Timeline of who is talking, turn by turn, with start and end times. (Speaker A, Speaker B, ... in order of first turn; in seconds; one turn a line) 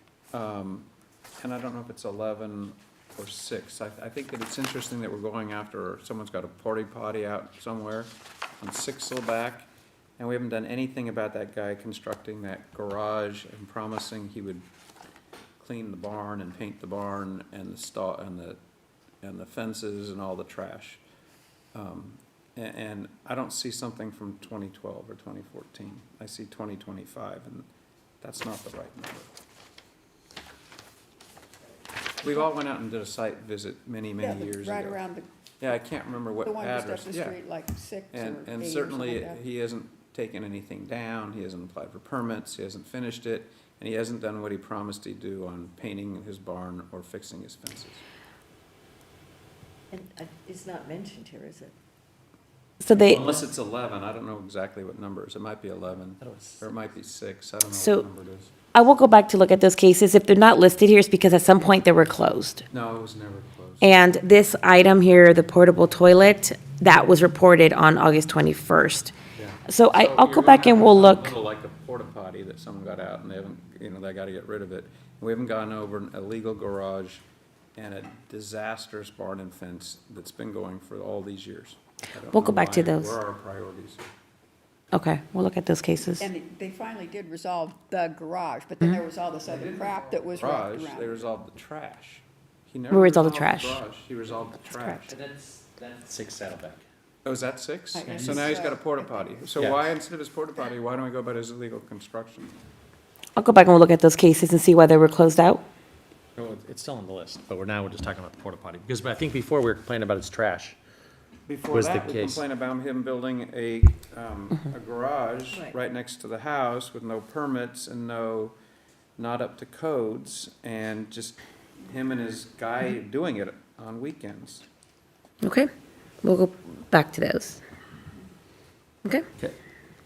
Speaker A: 0.3-0.9
Speaker A: 1.4-14.7
Speaker A: 15.6-18.6
Speaker A: 19.2-21.0
Speaker A: 21.7-27.7
Speaker A: 28.2-29.3
Speaker A: 32.2-35.0
Speaker B: 34.2-35.3
Speaker A: 35.6-37.4
Speaker B: 36.4-39.4
Speaker A: 38.1-48.0
Speaker C: 49.9-51.7
Speaker D: 52.8-53.2
Speaker A: 52.9-58.5
Speaker E: 56.2-56.6
Speaker D: 57.7-58.1
Speaker D: 58.7-62.7
Speaker A: 62.7-63.9
Speaker D: 63.8-69.1
Speaker A: 69.4-77.2
Speaker D: 69.7-71.3
Speaker A: 77.8-84.1
Speaker D: 82.3-83.2
Speaker D: 84.9-86.3
Speaker B: 86.2-91.3
Speaker A: 89.5-95.2
Speaker D: 92.9-93.8
Speaker D: 94.7-95.0
Speaker E: 95.1-96.8
Speaker A: 97.2-102.5
Speaker B: 97.9-99.4
Speaker E: 98.0-98.5
Speaker E: 99.6-99.9
Speaker D: 103.4-105.6
Speaker E: 106.4-110.8
Speaker A: 111.5-118.5
Speaker E: 111.7-112.4
Speaker C: 115.5-115.8
Speaker A: 119.2-124.7
Speaker D: 125.4-125.7
Speaker D: 126.2-127.6